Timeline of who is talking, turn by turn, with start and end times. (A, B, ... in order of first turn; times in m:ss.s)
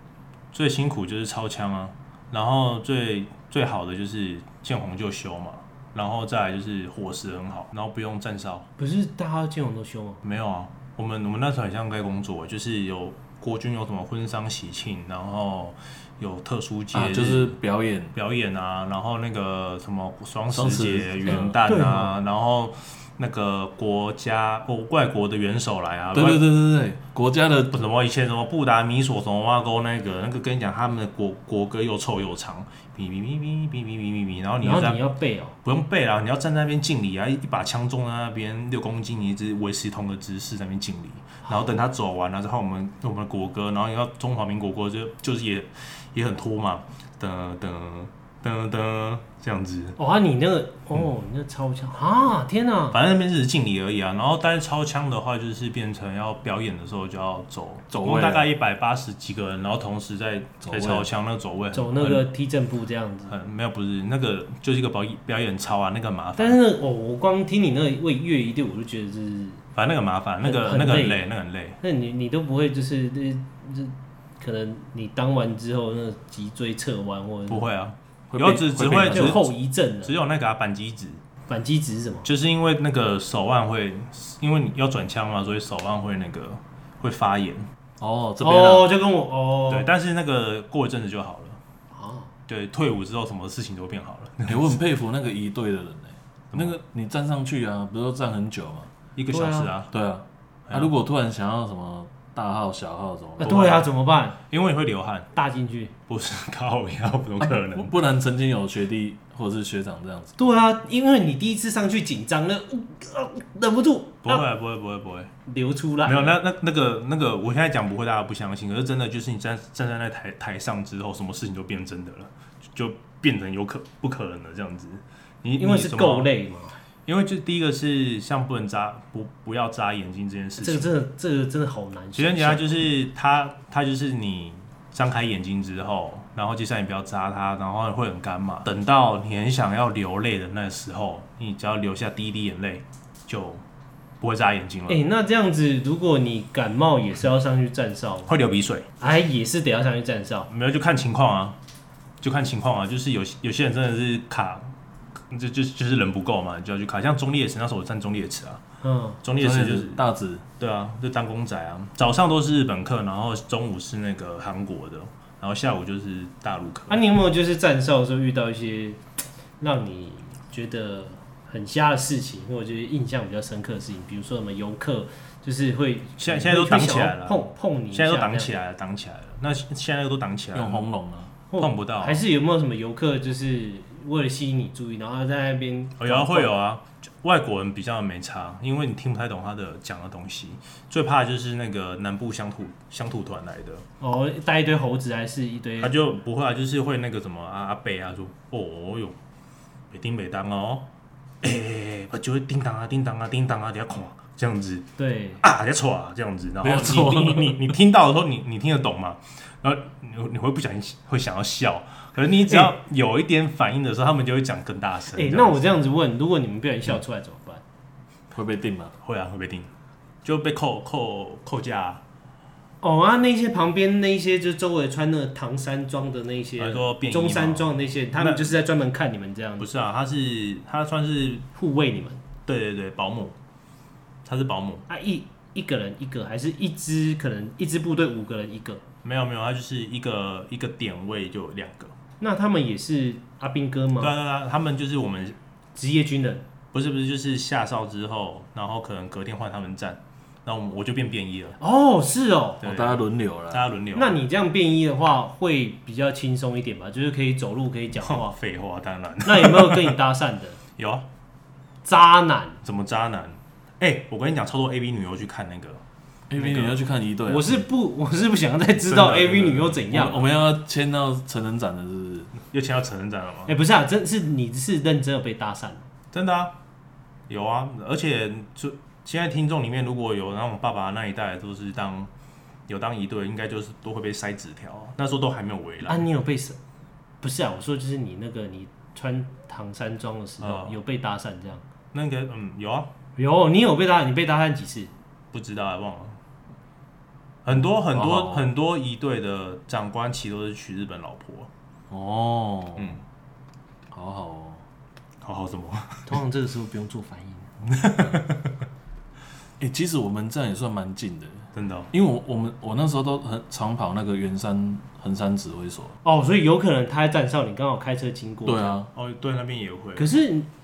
0:00.5-0:08.6 A
0:08.8-0:10.2 B
0:10.2-0:17.6 A
0:16.9-0:18.1 C
0:18.1-0:26.4 A
0:20.5-0:21.6 C
0:21.3-0:22.1 B
0:26.1-0:27.7 C
0:27.7-0:35.0 A
0:34.6-0:35.5 B
0:35.6-0:50.0 A
0:41.4-0:41.7 B
0:50.0-0:53.0 B
0:52.9-1:02.3 A
0:57.9-0:58.5 C
1:00.6-1:01.1 C
1:01.7-1:03.3 B
1:03.3-1:06.6 A
1:06.4-1:09.6 B
1:09.7-1:11.8 A
1:10.4-1:11.2 B
1:11.8-1:17.6 B
1:17.5-1:19.5 A
1:18.3-1:19.4 C
1:18.8-1:20.1 B
1:20.0-1:21.2 A
1:21.5-1:22.3 B
1:22.2-1:27.6 A
1:28.0-1:28.9 C
1:28.4-1:29.9 B
1:29.7-1:31.6 A
1:31.9-1:32.3 B
1:32.5-1:34.8 A
1:34.5-1:38.9 C
1:39.2-1:39.9 A
1:39.3-1:39.7 B
1:39.9-1:43.7 C
1:40.7-1:40.9 A
1:43.4-1:44.4 B
1:43.4-1:43.9 A
1:44.5-1:45.3 A
1:45.3-1:45.9 B
1:46.1-1:47.9 A
1:47.4-1:50.3 C
1:50.4-1:54.4 B
1:54.2-1:55.3 A
1:55.5-1:56.4 B
1:56.0-2:06.3 A
2:05.6-2:06.8 B
2:07.0-2:10.9 A
2:10.6-2:12.8 B
2:12.2-2:23.6 A
2:24.2-2:25.0 A
2:24.9-2:28.3 B
2:28.3-2:28.9 A
2:29.0-2:30.5 B
2:30.5-2:31.6 A
2:32.2-2:34.7 A
2:35.3-2:38.6 A
2:38.8-2:39.2 B
2:39.2-2:40.0 A
2:39.4-2:40.4 C
2:40.6-2:47.0 A
2:46.9-2:49.0 B
2:49.6-2:58.5 B
2:56.2-3:00.8 A
3:00.5-3:01.3 C
3:01.5-3:06.5 B
3:01.6-3:02.2 A
3:06.0-3:13.8 A
3:14.0-3:16.0 B
3:15.8-3:19.2 A
3:19.9-3:20.8 A
3:21.4-3:24.9 A
3:25.0-3:25.4 B
3:25.4-3:35.8 A
3:26.6-3:27.7 C
3:35.2-3:37.6 B
3:38.3-3:38.9 C
3:39.0-3:39.7 A
3:40.2-3:42.0 A
3:42.8-3:49.7 B
3:46.6-3:48.5 A
3:49.6-3:51.5 A
3:51.5-3:52.2 B
3:52.4-3:53.3 A
3:54.2-3:54.8 A
3:54.9-3:58.8 B
3:59.0-4:01.9 A
4:02.2-4:04.1 B
4:04.0-4:05.4 A
4:05.7-4:06.4 B
4:06.7-4:11.6 A
4:11.6-4:12.6 B
4:12.6-4:13.7 C
4:12.6-4:14.2 A
4:13.9-4:18.3 B
4:18.0-4:20.0 A
4:19.2-4:20.6 B
4:20.8-4:21.0 A
4:21.8-4:22.6 B
4:22.6-4:25.8 A
4:26.3-4:27.6 C
4:26.3-4:26.8 A
4:27.3-4:30.2 B
4:28.8-4:29.8 A
4:29.9-4:32.3 C
4:32.5-4:33.5 A
4:33.5-4:35.8 B
4:36.1-4:36.6 A
4:37.3-4:42.1 A
4:42.7-4:46.0 A
4:45.9-4:46.6 B
4:47.2-4:51.6 B
4:50.4-4:50.8 A
4:51.9-4:52.9 A
4:53.2-4:54.9 B
4:55.3-4:56.2 A
4:57.4-5:01.5 A
4:57.9-4:58.5 C
5:01.9-5:03.0 C
5:02.8-5:03.0 A
5:03.9-5:04.6 C
5:05.2-5:06.2 A
5:06.1-5:07.5 B
5:07.7-5:08.5 A
5:09.6-5:15.9 C
5:11.5-5:11.9 A
5:16.0-5:18.8 B
5:18.4-5:18.9 C
5:18.9-5:20.2 A
5:20.0-5:20.5 B